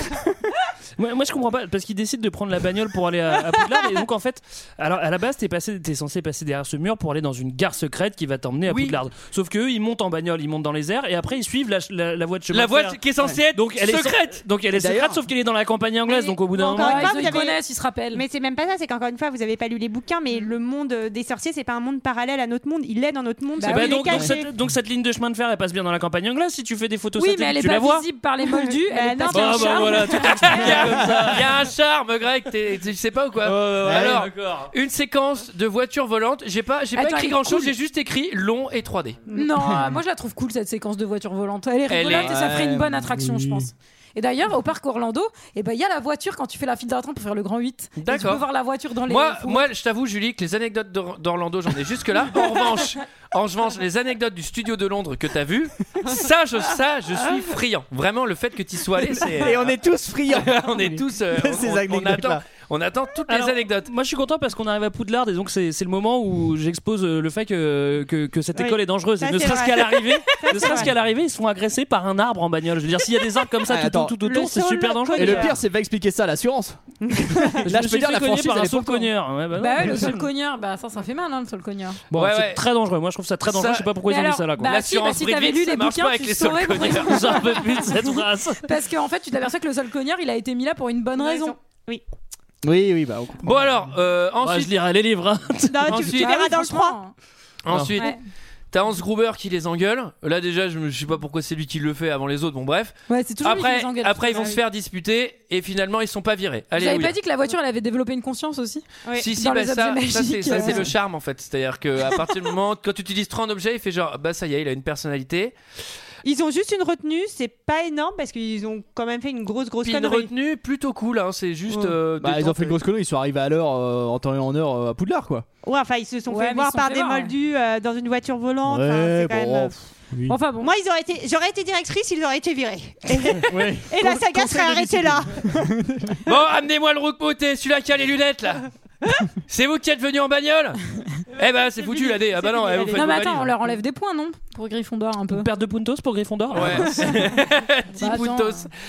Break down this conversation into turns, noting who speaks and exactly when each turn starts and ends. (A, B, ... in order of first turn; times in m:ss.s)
0:01.0-0:17.4 A
0:08.7-0:09.0 B
0:12.5-0:14.4 B
0:14.7-0:15.2 C
0:16.1-0:18.2 D
0:16.6-0:24.5 E
0:23.6-0:24.3 D
0:23.6-0:28.0 A
0:27.2-0:30.9 D
0:28.6-0:30.6 E
0:29.3-0:31.5 A
0:30.4-0:39.2 B
0:33.4-0:34.7 A
0:33.8-0:34.3 C
0:36.9-0:37.7 D
0:39.3-0:49.7 D
0:39.6-0:39.9 C
0:41.9-0:42.4 B
0:42.2-0:43.7 C
0:48.0-0:48.4 B
0:49.0-0:59.7 B
0:59.2-1:02.4 C
1:00.3-1:03.9 B
1:03.3-1:15.5 A
1:08.5-1:10.9 E
1:13.6-1:14.1 C
1:14.2-1:15.5 E
1:15.1-1:19.1 C
1:17.0-1:17.6 E
1:17.6-1:20.3 A
1:19.6-1:22.0 D
1:22.1-1:24.8 A
1:22.1-1:22.6 B
1:23.4-1:23.9 B
1:24.0-1:28.0 D
1:24.6-1:27.4 B
1:26.9-1:28.7 A
1:28.6-1:31.6 D
1:31.1-1:32.0 E
1:32.6-1:33.6 C
1:33.4-1:34.7 B
1:34.4-1:35.9 A
1:35.7-1:37.0 E
1:35.9-1:36.3 B
1:36.1-1:37.1 D
1:37.6-1:38.2 B
1:38.7-1:47.2 B
1:43.1-1:44.6 D
1:46.8-1:50.9 D
1:49.2-1:55.6 B
1:56.2-2:00.3 E
1:59.8-2:02.8 B
2:01.7-2:02.0 E
2:02.2-2:05.4 C
2:05.6-2:09.8 E
2:06.3-2:07.3 D
2:08.6-2:10.4 C
2:10.2-2:10.7 D
2:10.6-2:15.5 E
2:13.5-2:16.2 C
2:16.2-2:18.7 B
2:19.5-2:20.8 B
2:21.3-2:23.5 B
2:21.8-2:23.3 E
2:22.9-2:25.5 D
2:25.3-2:27.1 A
2:26.5-2:28.7 B
2:26.7-2:27.4 D
2:28.0-2:28.7 D